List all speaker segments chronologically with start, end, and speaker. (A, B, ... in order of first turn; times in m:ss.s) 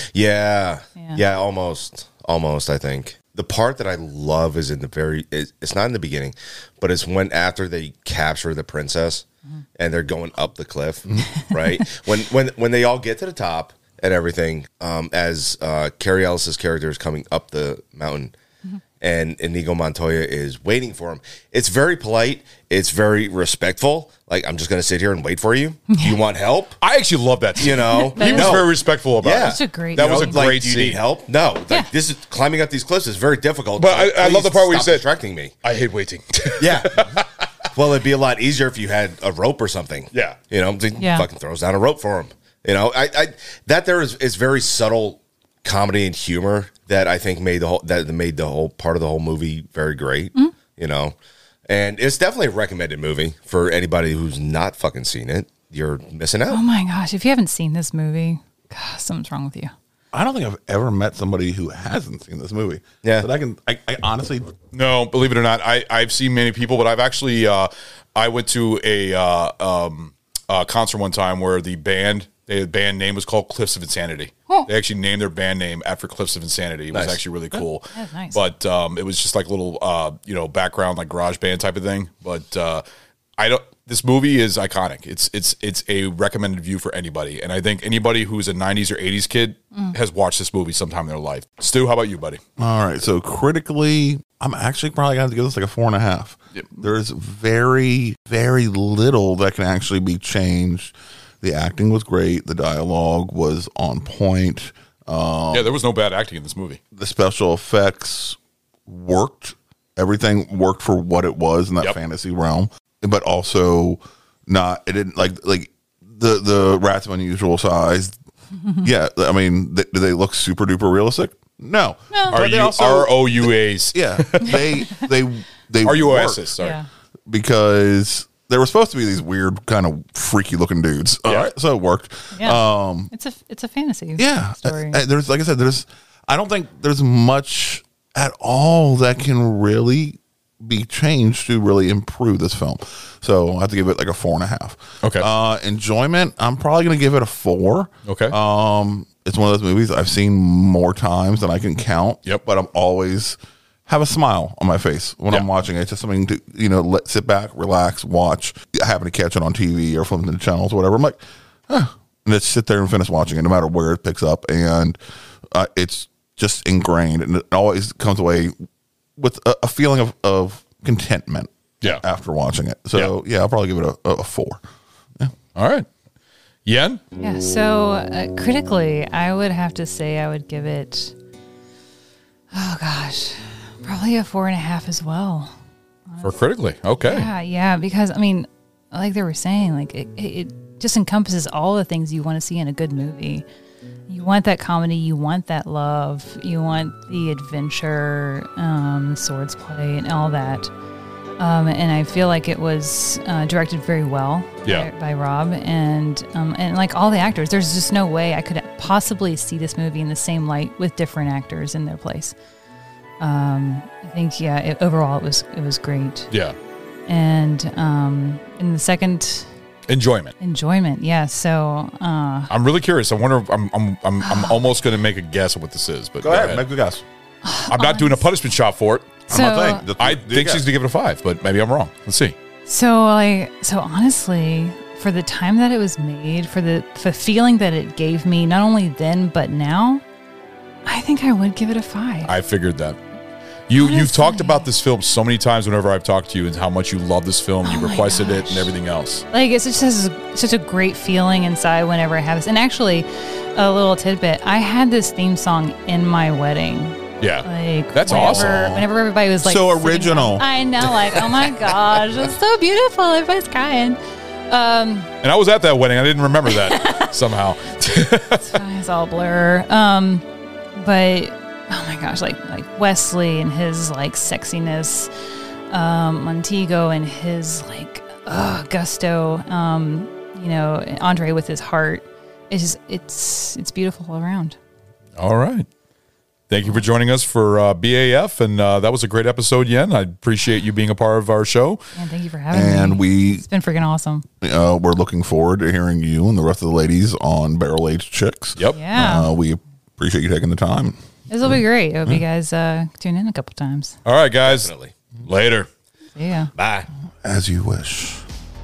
0:00.1-0:09.2 A
0:01.0-0:01.2 B
0:09.8-0:18.3 A
0:19.0-0:26.8 A
0:26.8-0:31.0 C
0:27.6-0:35.5 A
0:27.9-0:28.6 B
0:29.4-0:30.4 B
0:33.8-0:35.0 C
0:35.6-0:37.2 C
0:36.6-0:51.1 A
0:40.1-0:40.4 C
0:41.0-0:41.2 B
0:51.7-0:56.6 A
0:56.5-0:59.7 B
1:00.1-1:04.5 D
1:03.0-1:03.3 A
1:04.7-1:22.8 C
1:16.9-1:17.2 A
1:17.9-1:18.5 B
1:23.4-1:32.4 C
1:32.6-1:45.8 D
1:45.5-1:46.8 C
1:46.9-1:58.1 D
1:58.8-2:06.5 D
2:02.1-2:02.4 B
2:02.3-2:04.7 C
2:04.5-2:05.0 B
2:05.8-2:06.8 C
2:06.6-2:06.9 B
2:07.3-2:13.1 D
2:11.3-2:11.5 C
2:12.3-2:15.0 B
2:14.2-2:45.0 D
2:28.0-2:28.3 C
2:45.5-2:48.5 D
2:49.2-2:54.6 D
2:55.5-2:55.9 C
2:56.6-2:57.0 C
2:57.2-3:01.1 B
3:02.5-3:05.5 B
3:06.1-3:06.4 B
3:06.2-3:07.3 C
3:07.0-3:13.4 B
3:14.1-3:20.7 B
3:21.4-3:32.3 B
3:33.2-3:36.3 B
3:36.3-3:36.6 C
3:37.1-3:39.5 B
3:39.9-3:40.3 C
3:40.4-3:42.5 B
3:42.5-3:46.6 C
3:44.2-3:44.7 B
3:46.2-3:47.0 D
3:47.4-3:48.3 B
3:47.7-3:49.2 C
3:49.3-3:50.7 D
3:49.3-3:49.9 B
3:50.0-3:52.3 C
3:52.6-4:00.0 B
4:00.8-4:02.3 B
4:02.2-4:03.0 C
4:03.7-4:09.2 C
4:03.7-4:04.7 B
4:07.6-4:08.7 B
4:09.3-4:24.0 B
4:17.2-4:18.7 C
4:18.0-4:18.9 D
4:19.4-4:20.5 D
4:24.5-4:25.1 B
4:25.2-4:28.4 C
4:26.5-4:27.1 B
4:28.2-4:30.2 B
4:30.8-4:35.1 B
4:35.7-4:44.6 B
4:45.2-4:45.7 C
4:46.5-4:51.8 C
4:51.9-4:54.2 B
4:52.5-4:53.4 D
4:54.4-5:01.0 D
4:58.7-4:59.3 B
5:01.3-5:04.0 B
5:04.0-5:04.7 C
5:04.4-5:04.9 A
5:05.2-5:05.7 C
5:06.1-5:06.5 B
5:06.5-5:06.9 A
5:07.2-5:08.2 D